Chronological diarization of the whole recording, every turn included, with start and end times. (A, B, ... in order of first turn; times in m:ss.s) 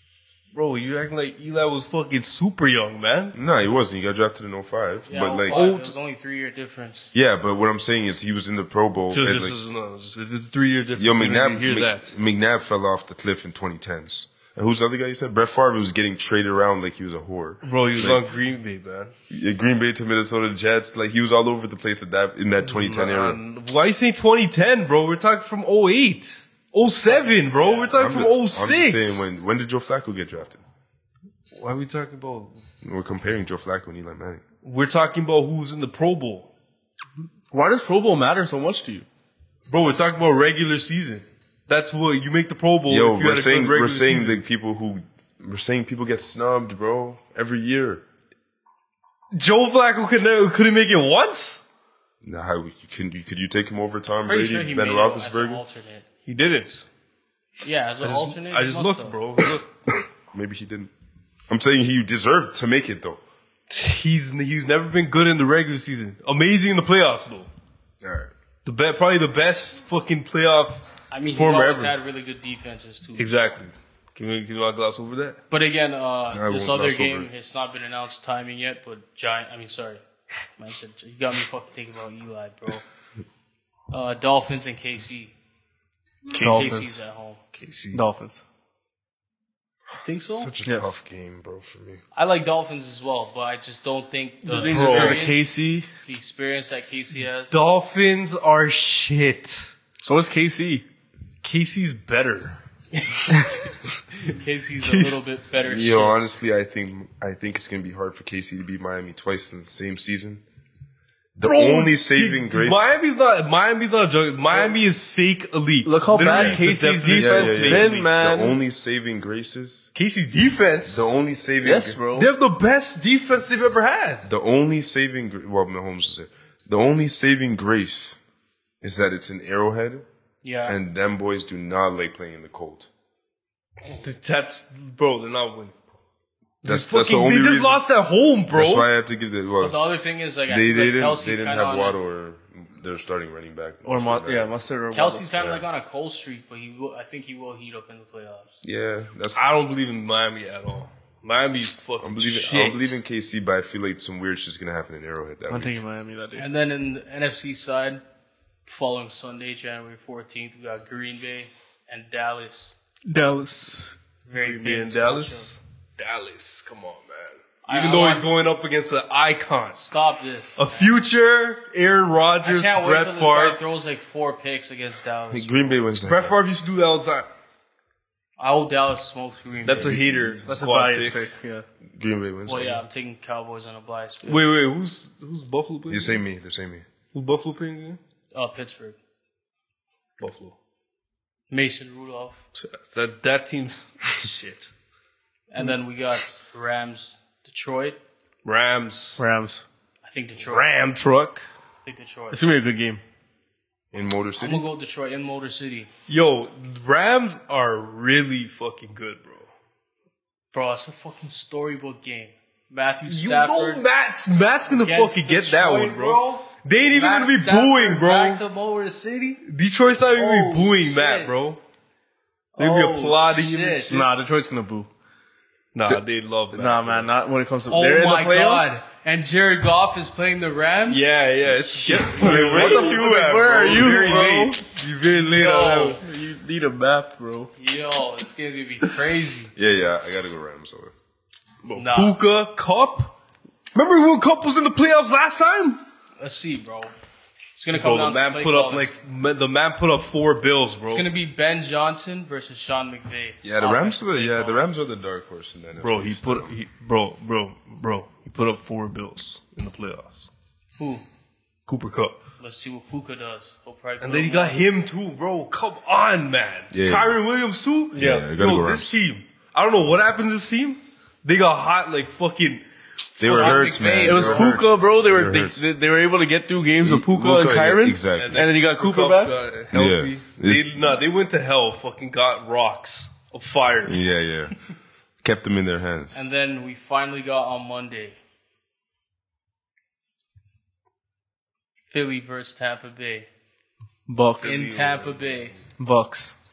0:00.5-0:03.3 A
0:03.3-0:05.7 B
0:05.1-0:07.1 C
0:05.3-0:05.9 A
0:07.1-0:09.6 B
0:09.1-0:12.2 A
0:11.0-0:18.2 B
0:17.6-0:19.1 A
0:19.3-0:23.4 B
0:22.6-0:29.3 A
0:27.0-0:28.2 C
0:27.9-0:30.6 B
0:31.5-0:32.5 A
0:32.8-0:34.4 B
0:34.6-0:36.5 A
0:37.5-0:39.0 D
0:39.7-0:44.4 A
0:42.9-0:48.0 B
0:49.3-0:51.6 A
0:52.2-0:55.6 B
0:54.2-0:56.0 C
0:56.2-0:56.9 A
0:57.6-0:59.2 C
0:58.0-0:59.7 A
1:00.3-1:00.9 B
1:01.5-1:03.2 B
1:03.7-1:07.5 A
1:08.0-1:08.3 B
1:08.6-1:11.9 A
1:11.1-1:13.3 C
1:13.2-1:15.4 A
1:15.5-1:20.0 C
1:16.3-1:17.3 B
1:20.6-1:22.8 C
1:23.9-1:25.3 C
1:26.3-1:27.0 D
1:26.3-1:26.8 A
1:26.4-1:27.4 C
1:27.5-1:28.0 A
1:27.9-1:28.4 D
1:29.9-1:32.0 B
1:30.0-1:30.5 C
1:30.6-1:31.0 D
1:32.1-1:35.5 C
1:34.4-1:35.9 D
1:34.6-1:35.2 A
1:36.0-1:37.6 C
1:37.5-1:39.7 A
1:40.0-1:40.8 D
1:41.4-1:42.6 A
1:42.9-1:43.7 C
1:44.2-1:46.2 C
1:44.8-1:45.2 A
1:45.6-1:50.4 B
1:51.4-1:52.9 B
1:51.4-1:58.0 A
1:55.8-1:58.6 D
1:56.2-1:59.8 B
1:59.9-2:01.0 A
2:00.8-2:02.0 B
2:01.6-2:02.3 D
2:02.1-2:04.3 A
2:04.2-2:08.2 B
2:08.8-2:10.0 B
2:10.4-2:10.8 C
2:10.6-2:12.9 B
2:13.8-2:15.7 A
2:16.6-2:18.9 A
2:16.6-2:17.8 B
2:18.5-2:24.5 B
2:19.6-2:22.0 C
2:23.8-2:25.3 D
2:24.9-2:28.6 C
2:25.3-2:25.6 B
2:28.6-2:29.4 B
2:29.3-2:33.0 A
2:32.0-2:35.8 B
2:35.5-2:36.5 D
2:36.4-2:38.0 C
2:38.6-2:42.8 C
2:43.1-2:44.0 D
2:44.2-2:45.5 C
2:44.4-2:49.8 A
2:47.6-2:48.3 C
2:49.8-2:50.9 C
2:50.6-2:53.6 A
2:52.4-2:55.8 C
2:55.3-2:56.4 B
2:56.0-2:57.3 A
2:58.4-3:00.4 C
2:59.6-3:01.3 A
3:00.4-3:01.6 D
3:02.0-3:02.8 B
3:02.4-3:04.5 C
3:04.2-3:06.2 A
3:05.9-3:06.8 B
3:07.1-3:08.0 A
3:08.3-3:09.0 C
3:10.2-3:10.5 A
3:11.5-3:12.4 C
3:12.5-3:14.7 A
3:15.5-3:18.0 C
3:18.4-3:19.2 A
3:19.2-3:19.6 D
3:20.0-3:20.7 C
3:20.4-3:21.4 A
3:21.8-3:22.4 C
3:22.3-3:23.0 D
3:23.9-3:24.6 B
3:24.4-3:25.9 C
3:26.1-3:29.5 A
3:30.5-3:33.8 C
3:33.0-3:38.4 A
3:34.7-3:39.4 C
3:39.4-3:41.6 A
3:40.1-3:41.3 C
3:42.6-3:44.0 C
3:42.6-3:44.0 A
3:43.9-3:44.9 D
3:45.7-3:47.1 A
3:46.5-3:48.8 D
3:47.7-3:51.1 C
3:50.9-3:56.0 A
3:51.9-3:53.0 C
3:52.0-3:54.6 D
3:52.1-3:54.6 B
3:55.2-3:56.0 C
3:56.0-3:57.5 D
3:57.6-3:59.5 C
3:59.6-4:00.9 B
4:01.7-4:02.2 C
4:01.8-4:03.1 A
4:03.7-4:05.8 A
4:06.2-4:06.9 C
4:07.6-4:09.0 C
4:07.7-4:11.1 A
4:10.9-4:14.6 C
4:13.4-4:16.5 B
4:15.8-4:20.3 A
4:20.8-4:21.0 C
4:21.7-4:22.2 A
4:22.4-4:24.6 C
4:24.0-4:32.6 A
4:26.7-4:27.1 B
4:27.9-4:28.3 D
4:28.0-4:29.0 B
4:33.2-4:35.6 B
4:33.2-4:34.7 C
4:33.3-4:33.6 A
4:33.5-4:39.3 D
4:36.8-4:38.5 B
4:38.1-4:44.1 A
4:39.7-4:41.0 B
4:43.8-4:46.3 B
4:46.1-4:48.2 C
4:51.9-4:53.3 C
4:54.1-4:54.7 D
4:54.4-4:54.7 A
4:54.4-4:55.6 C
4:55.8-4:56.3 D